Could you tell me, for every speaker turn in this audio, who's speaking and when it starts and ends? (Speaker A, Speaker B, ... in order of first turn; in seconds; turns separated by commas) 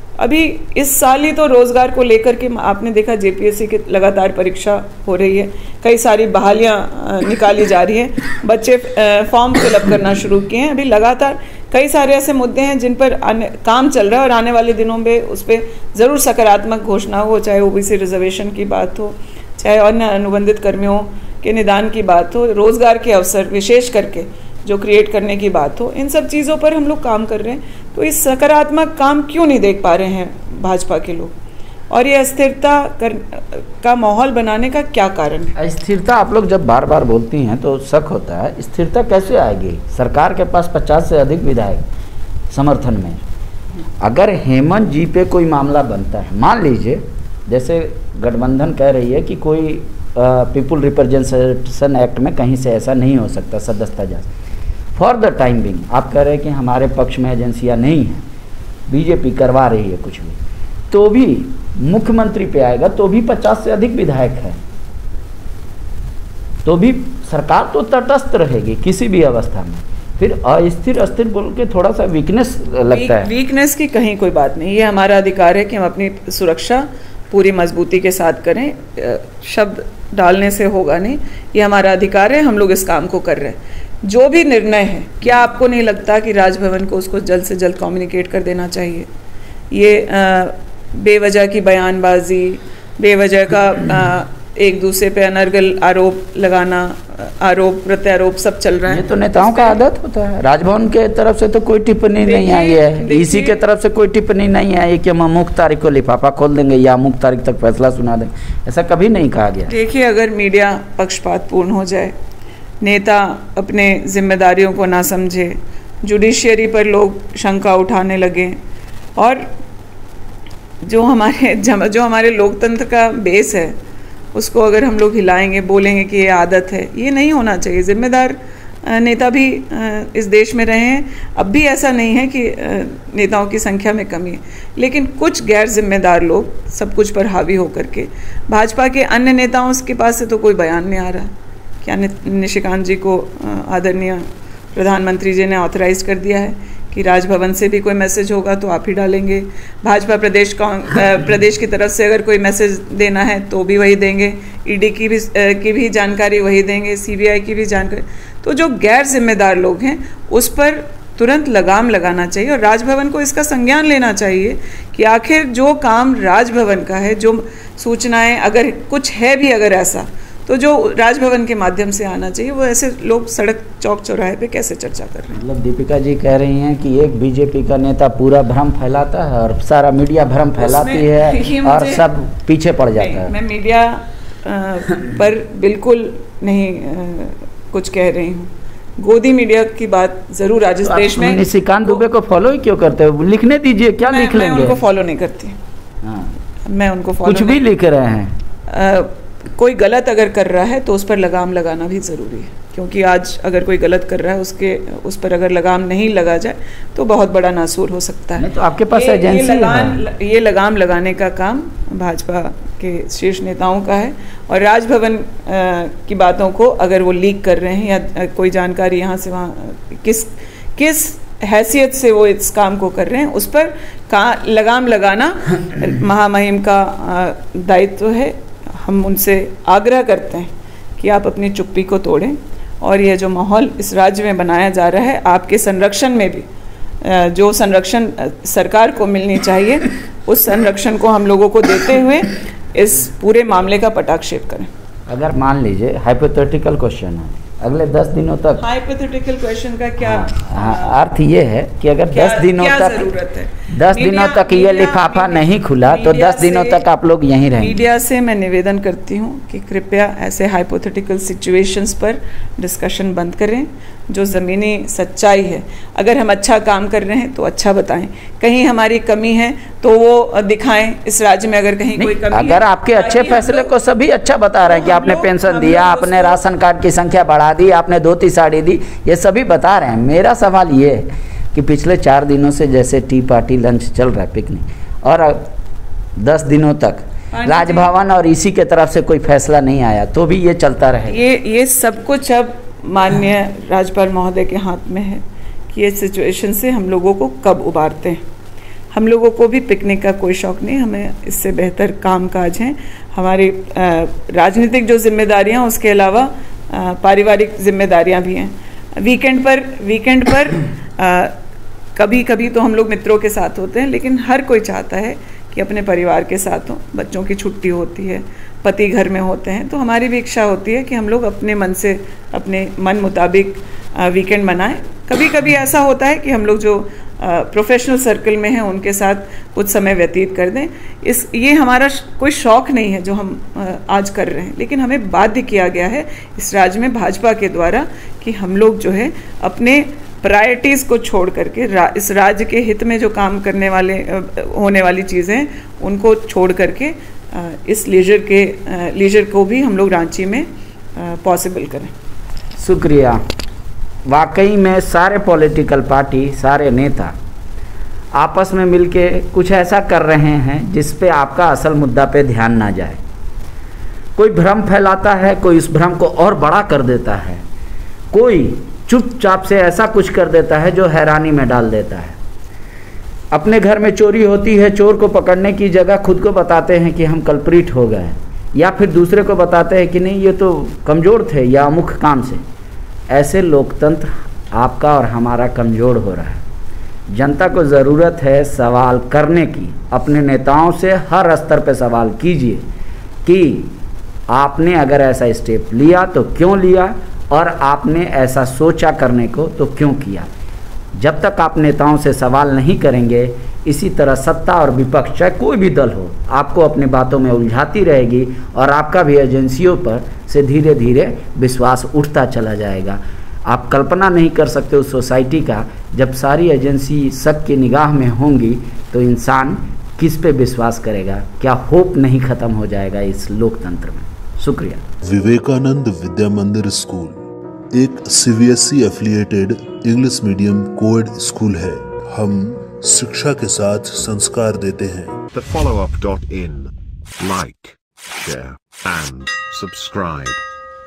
Speaker A: 0.2-31.3, Speaker A: 31.9-35.5, Speaker B: 35.6-41.8, Speaker B: 42.5-43.2, Speaker B: 44.0-54.3, Speaker B: 55.0-58.2, Speaker B: 58.9-60.4, Speaker B: 60.9-64.6, Speaker B: 66.6-73.3, Speaker A: 72.9-89.1, Speaker A: 89.7-99.8, Speaker B: 98.9-109.7, Speaker A: 102.2-103.6, Speaker A: 109.7-112.1, Speaker A: 112.8-118.6, Speaker A: 119.2-119.5, Speaker A: 120.8-123.8, Speaker A: 124.3-141.3, Speaker A: 141.8-175.3, Speaker B: 175.3-183.3, Speaker A: 180.6-182.1, Speaker A: 183.0-192.0, Speaker B: 190.8-194.8, Speaker A: 194.1-195.6, Speaker B: 196.0-196.3, Speaker A: 196.7-197.6, Speaker B: 197.2-198.4, Speaker A: 198.7-236.5, Speaker B: 208.4-210.0, Speaker A: 237.0-244.7, Speaker B: 245.1-248.7, Speaker A: 248.6-251.0, Speaker B: 250.0-253.1, Speaker A: 252.1-256.8, Speaker B: 253.7-257.8, Speaker A: 257.6-273.7, Speaker B: 272.0-285.5, Speaker A: 274.6-276.4, Speaker B: 286.2-291.2, Speaker A: 287.3-287.9, Speaker A: 291.1-298.2, Speaker A: 298.9-311.4, Speaker A: 312.0-351.9, Speaker B: 352.6-353.2, Speaker B: 354.1-357.2, Speaker B: 358.1-363.0, Speaker B: 364.2-367.4, Speaker B: 368.1-372.2, Speaker B: 373.3-382.4, Speaker B: 383.1-386.4, Speaker B: 387.1-392.6, Speaker B: 393.2-393.8, Speaker B: 394.3-400.3, Speaker B: 401.0-424.8, Speaker C: 425.0-427.2, Speaker C: 427.7-435.2, Speaker D: 435.3-440.4